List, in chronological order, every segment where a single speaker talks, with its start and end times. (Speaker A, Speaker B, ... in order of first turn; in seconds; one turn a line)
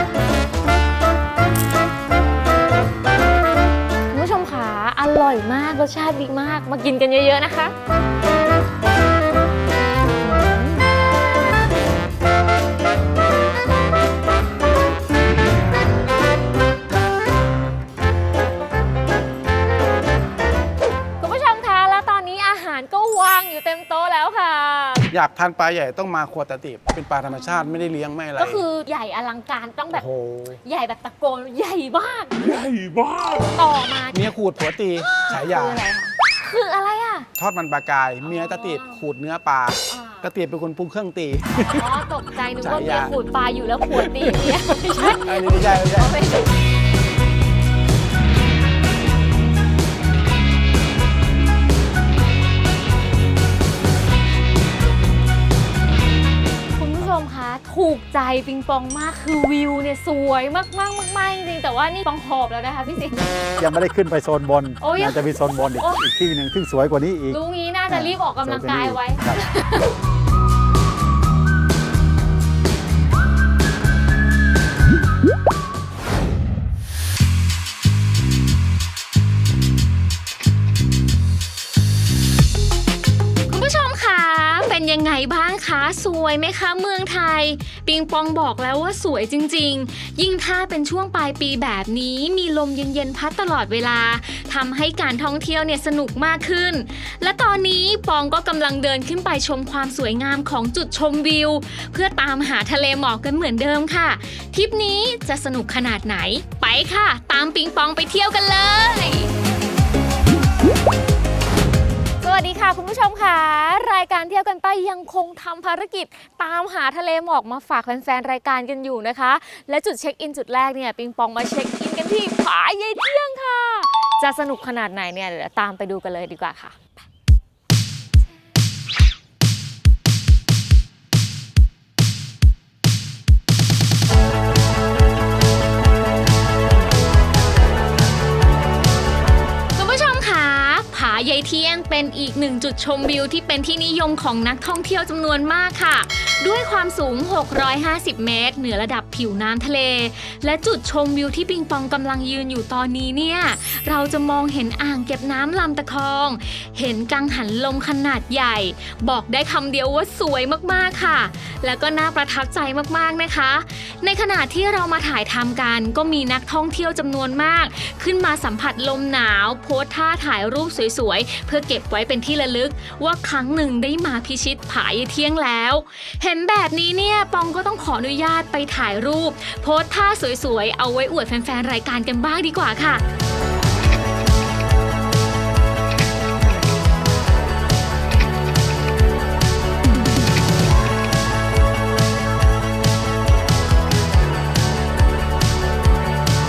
Speaker A: 4.1-7.7
Speaker A: 10.2-10.9
Speaker A: 21.2-25.1
Speaker B: 25.1-28.6
Speaker A: 27.3-30.1
Speaker B: 29.9-30.6
Speaker A: 30.6-32.4
Speaker B: 32.4-33.5
Speaker A: 33.5-34.2
Speaker B: 34.1-35.8
Speaker A: 35.1-37.3
Speaker B: 37.4-42.0
Speaker A: 38.2-39.0
Speaker A: 39.9-40.3
Speaker A: 41.6-46.5
Speaker B: 42.6-43.1
Speaker B: 43.9-46.2
Speaker A: 56.8-63.3
Speaker C: 63.6-69.4
Speaker A: 64.8-66.1
Speaker A: 67.3-69.9
Speaker A: 83.5-109.3
Speaker A: 112.2-126.8
Speaker A: 139.7-183.0